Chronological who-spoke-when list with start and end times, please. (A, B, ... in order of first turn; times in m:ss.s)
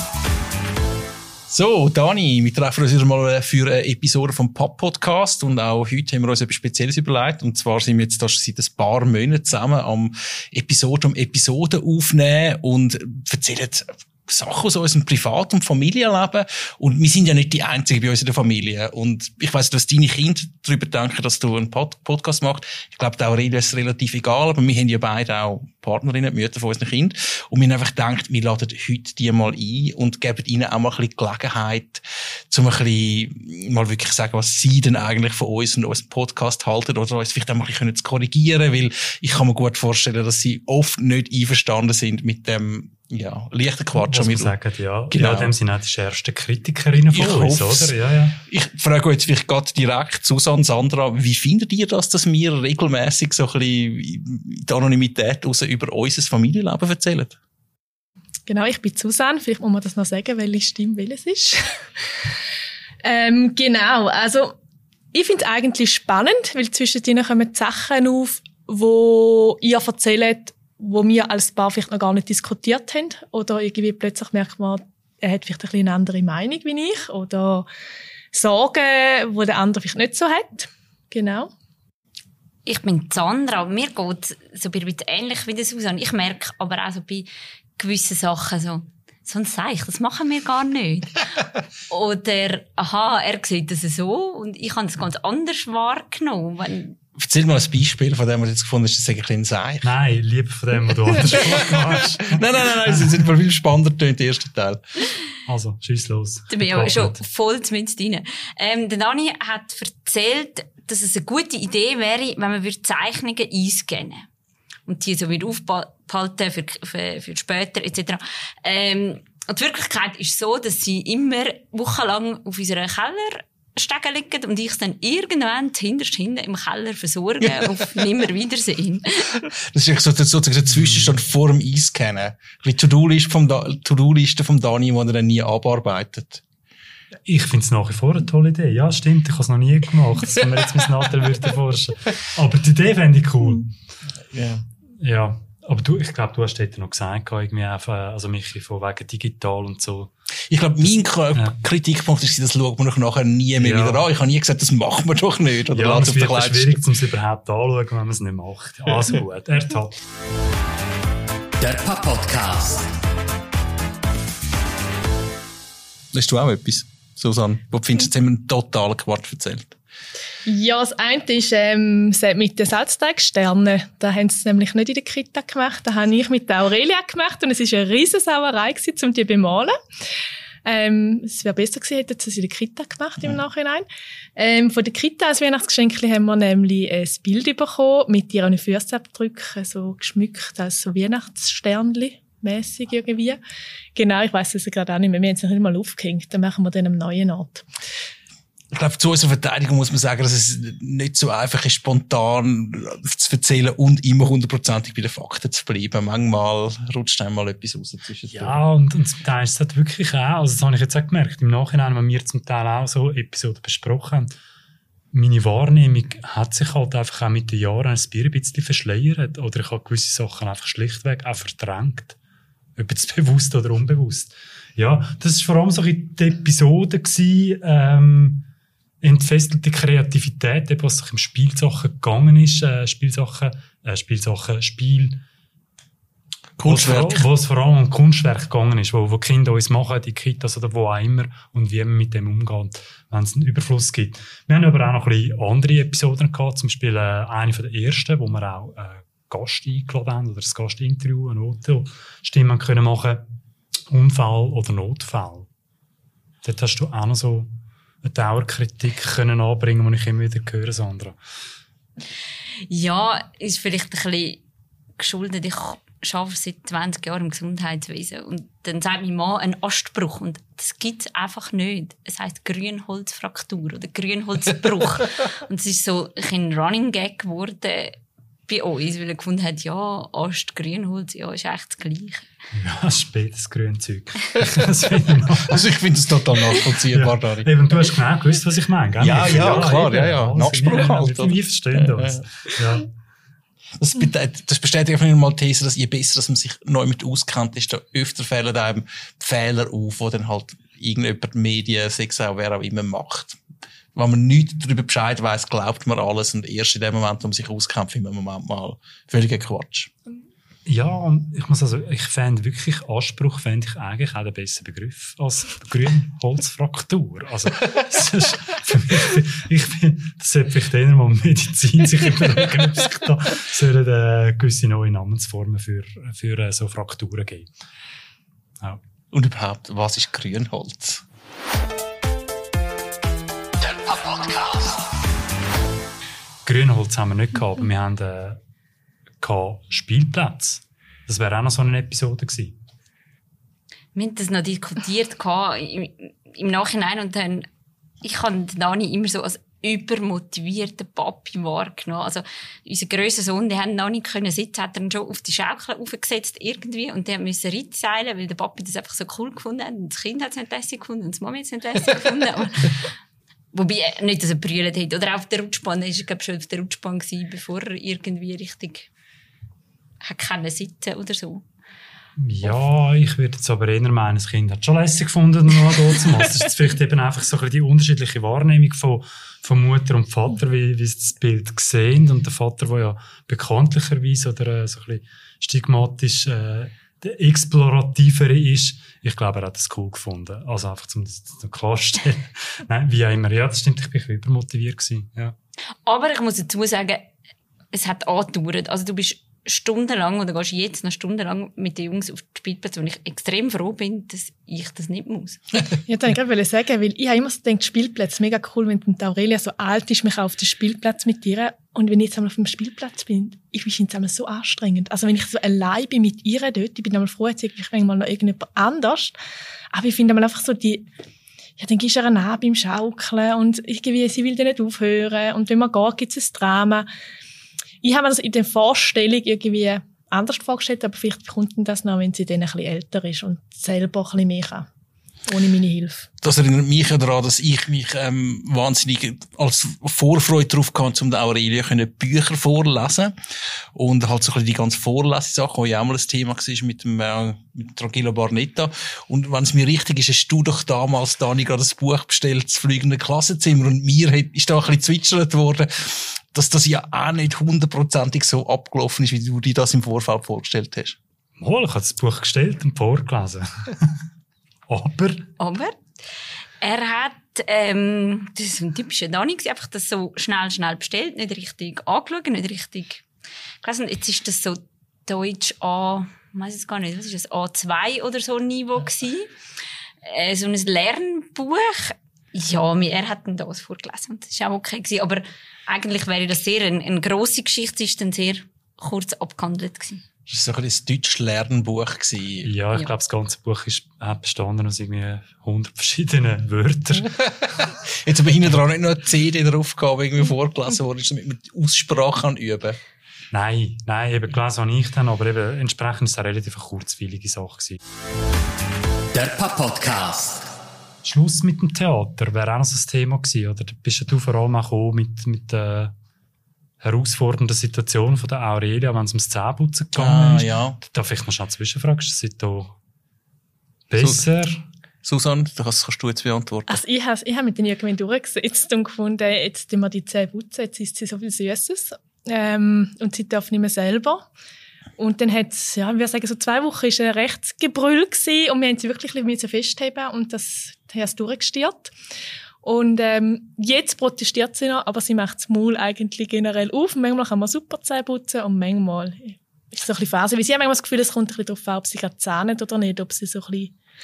0:01.5-0:44.5 A
0:44.0-0:48.4 B
0:45.1-0:45.5 A
0:47.1-0:48.0 A
0:48.5-0:57.4 A
0:58.5-1:01.6 C
1:03.0-1:04.5 C
1:05.1-1:17.7 C
1:18.3-1:21.5 C
1:22.7-1:31.3 D
1:31.9-1:37.0 D
1:37.2-1:39.9 A
1:39.8-1:43.1 B
1:41.3-1:44.8 A
1:45.5-1:47.2 B
1:46.5-1:54.3 D
1:54.9-2:09.5 D
2:07.6-2:07.8 A
2:09.7-2:16.4 A
2:17.3-2:23.7 B
2:24.3-2:24.6 A
2:25.0-2:30.1 B
2:30.5-2:36.8 A
2:33.6-2:34.0 B
2:35.7-2:40.0 B
2:41.6-2:42.8 E
2:46.1-2:49.8 A
2:50.5-2:59.8 C
3:00.6-3:03.8 C
3:04.4-3:13.4 C
3:14.0-3:17.6 C
3:18.7-3:28.6 A
3:28.3-3:34.3 B
3:35.1-3:42.2 B
3:42.8-3:48.4 B
3:49.0-3:55.2 B
3:56.6-3:57.3 A
3:56.6-4:13.2 B
4:13.9-4:15.5 B
4:16.4-4:17.5 B
4:18.0-4:21.2 B
4:22.7-4:24.4 D
4:25.0-4:38.0 D
4:38.5-4:42.3 D
4:42.5-4:45.7 B
4:45.5-4:47.5 A
4:46.7-4:52.9 B
4:49.0-4:52.6 A
4:53.8-5:03.4 A
5:04.0-5:09.9 A
5:10.6-5:27.5 B
5:29.1-5:31.0 A
5:36.4-5:38.4 B
5:39.2-5:42.6 B
5:44.0-5:47.5 D
5:48.0-6:02.9 D
6:03.5-6:08.9 D
6:10.0-6:11.4 D
6:12.2-6:35.4 B
6:35.9-6:37.1 D
6:37.7-6:45.4 D
6:45.9-6:59.2 C
6:59.7-7:00.9 C
7:01.6-7:06.9 C
7:07.8-7:14.7 C
7:15.3-7:16.1 C
7:16.2-7:23.2 A
7:23.8-7:41.0 A
7:41.4-7:43.7 B
7:44.7-7:45.3 B
7:45.4-7:45.8 D
7:46.6-7:53.0 D
7:53.6-7:59.3 D
8:00.0-8:10.0 D
8:10.3-8:12.5 A
8:12.4-8:17.2 B
8:18.0-8:22.8 A
8:23.3-8:27.8 B
8:29.2-8:30.4 E
8:31.0-8:35.9 B
8:36.8-8:42.8 B
8:39.9-8:40.8 A
8:43.9-8:44.6 B
8:44.0-8:44.2 A
8:45.0-8:46.8 A
8:46.7-8:54.2 C
8:55.0-9:01.9 C
9:02.6-9:13.7 C